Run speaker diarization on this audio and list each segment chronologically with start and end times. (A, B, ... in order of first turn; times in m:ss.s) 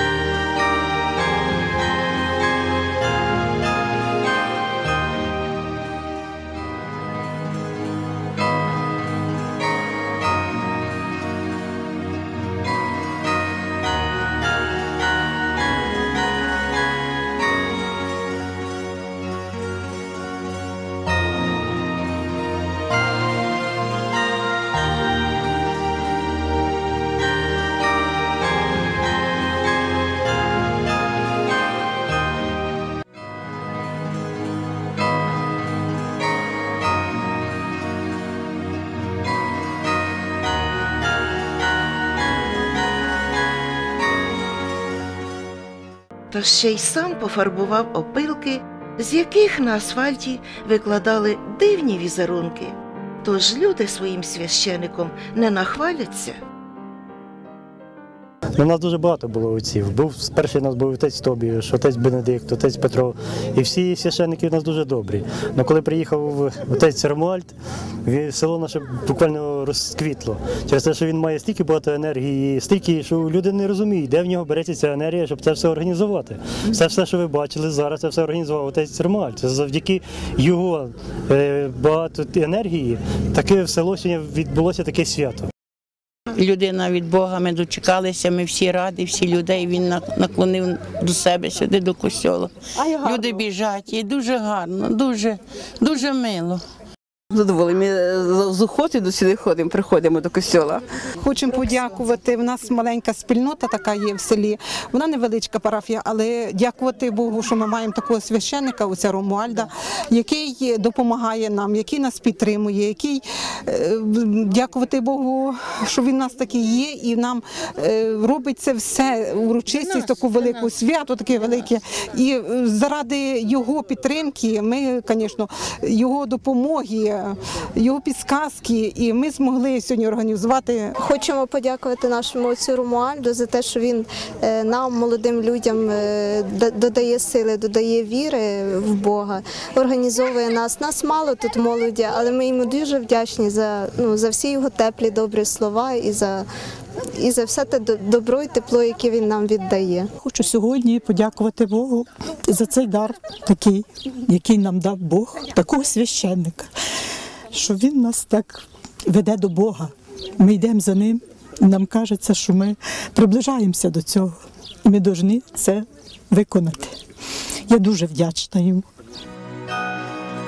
0:46.3-0:56.4 A
0:58.6-1:25.5 B
1:26.3-1:36.6 C
1:32.8-1:33.4 D
1:37.3-1:40.9 D
1:41.2-2:10.9 E
2:11.0-2:26.5 F
2:27.2-2:30.1 F
2:30.2-2:36.7 G
2:37.5-2:47.0 G
2:47.7-2:48.9 G